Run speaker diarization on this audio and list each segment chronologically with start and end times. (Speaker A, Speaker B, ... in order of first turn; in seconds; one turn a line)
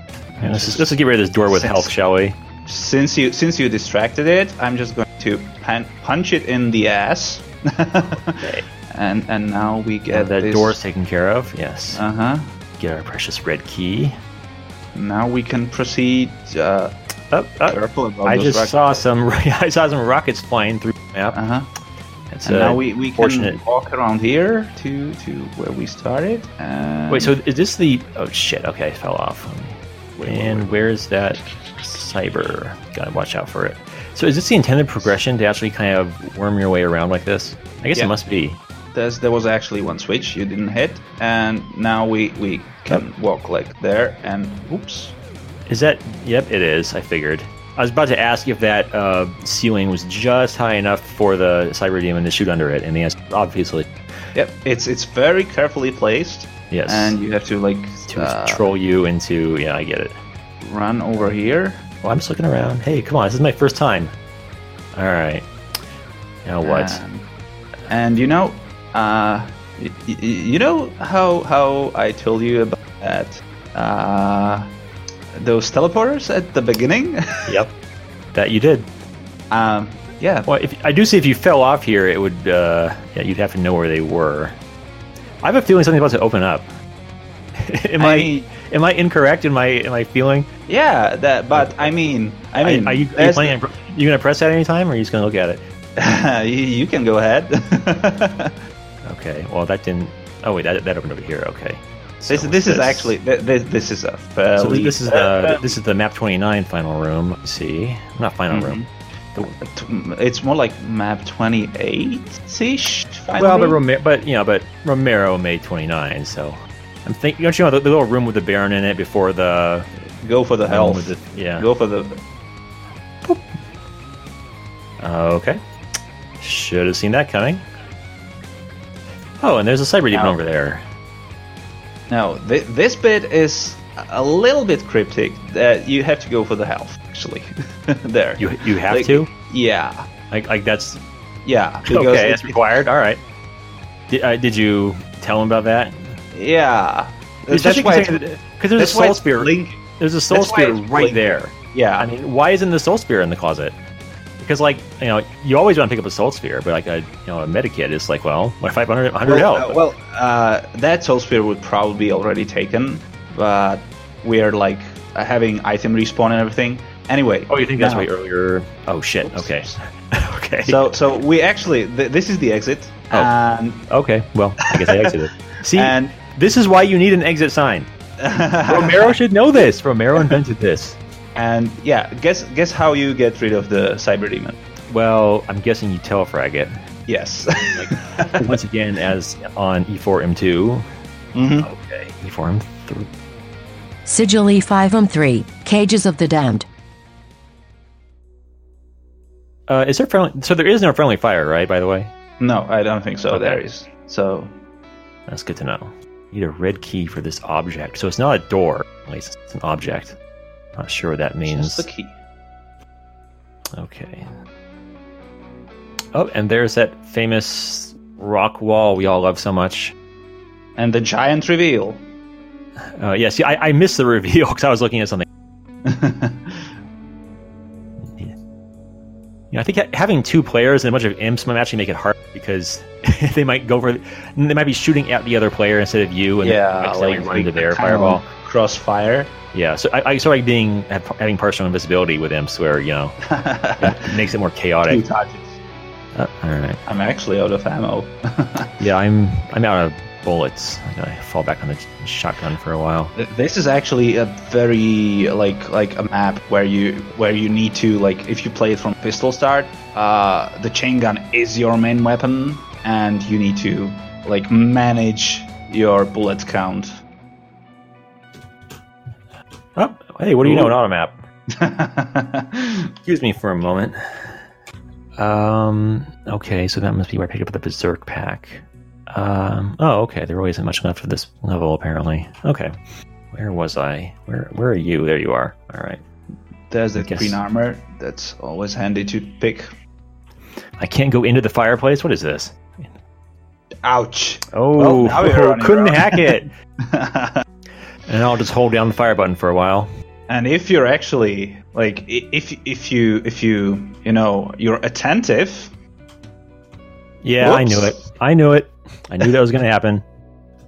Speaker A: 0.4-0.9
Speaker B: 0.4-2.4
Speaker A: 1.4-1.9
Speaker A: 2.6-10.8
Speaker B: 8.4-8.6
Speaker B: 10.1-12.0
Speaker A: 11.9-12.5
Speaker B: 12.8-14.2
Speaker A: 14.9-16.9
Speaker B: 17.3-21.4
Speaker A: 17.7-19.0
Speaker A: 21.3-21.7
Speaker B: 22.3-23.6
Speaker A: 22.4-27.3
Speaker B: 27.1-38.6
Speaker A: 30.1-30.8
Speaker A: 38.9-45.1
Speaker B: 45.7-53.9
Speaker A: 54.3-58.7
Speaker B: 56.7-57.2
Speaker B: 58.1-60.2
Speaker A: 60.6-61.9
Speaker B: 62.0-64.1
Speaker B: 64.9-65.5
Speaker B: 66.4-67.0
Speaker A: 66.6-67.3
Speaker A: 67.9-74.7
Speaker A: 75.3-77.6
Speaker B: 77.5-77.7
Speaker B: 78.3-78.9
Speaker A: 79.5-80.5
Speaker B: 80.5-84.5
Speaker B: 85.4-86.7
Speaker B: 87.5-90.5
Speaker A: 88.0-88.5
Speaker A: 90.7-93.6
Speaker B: 91.5-91.9
Speaker B: 92.6-95.6
Speaker A: 96.0-98.5
Speaker B: 99.0-103.2
Speaker A: 102.3-105.8
Speaker B: 104.5-108.8
Speaker A: 108.5-108.9
Speaker A: 109.4-113.8
Speaker B: 113.3-119.9
Speaker A: 120.2-122.2
Speaker B: 120.7-121.7
Speaker B: 125.0-125.6
Speaker B: 126.4-127.6
Speaker B: 129.4-130.8
Speaker A: 130.1-130.4
Speaker A: 132.1-140.1
Speaker B: 138.4-139.3
Speaker B: 140.3-141.0
Speaker A: 141.4-142.7
Speaker B: 141.8-143.2
Speaker B: 144.1-146.2
Speaker A: 146.3-148.2
Speaker B: 147.5-153.8
Speaker A: 148.8-152.1
Speaker B: 154.4-159.8
Speaker A: 159.3-168.1
Speaker B: 167.5-170.9
Speaker A: 169.2-169.8
Speaker A: 170.6-173.9
Speaker B: 173.9-177.9
Speaker A: 174.7-175.1
Speaker A: 175.7-176.2
Speaker A: 178.2-179.2
Speaker B: 178.7-181.0
Speaker A: 181.3-184.6
Speaker B: 184.9-186.8
Speaker A: 187.1-188.5
Speaker B: 187.7-190.8
Speaker A: 191.3-191.7
Speaker B: 191.6-193.1
Speaker C: 194.1-196.7
Speaker B: 199.7-202.1
Speaker A: 202.4-204.5
Speaker B: 203.3-203.6
Speaker B: 205.3-210.2
Speaker B: 210.8-211.9
Speaker A: 211.4-212.2
Speaker B: 213.7-214.3
Speaker B: 216.1-219.9
Speaker A: 220.8-222.0
Speaker B: 222.8-225.2
Speaker A: 225.8-226.7
Speaker B: 228.0-228.3
Speaker B: 229.5-238.3
Speaker A: 236.4-239.3
Speaker B: 239.5-243.2
Speaker A: 243.3-244.1
Speaker B: 243.8-245.0
Speaker A: 244.8-245.6
Speaker B: 246.1-246.8
Speaker A: 246.8-248.7
Speaker B: 248.8-253.1
Speaker A: 253.1-267.0
Speaker B: 269.8-271.2
Speaker A: 270.4-270.8
Speaker A: 271.6-272.8
Speaker B: 273.1-274.4
Speaker B: 275.2-282.7
Speaker B: 283.3-286.0
Speaker A: 286.7-289.7
Speaker B: 286.9-287.4
Speaker B: 290.8-292.9
Speaker A: 293.8-297.4
Speaker B: 294.5-296.5
Speaker B: 298.1-299.9
Speaker A: 300.3-305.7
Speaker B: 307.2-310.0
Speaker A: 307.4-308.0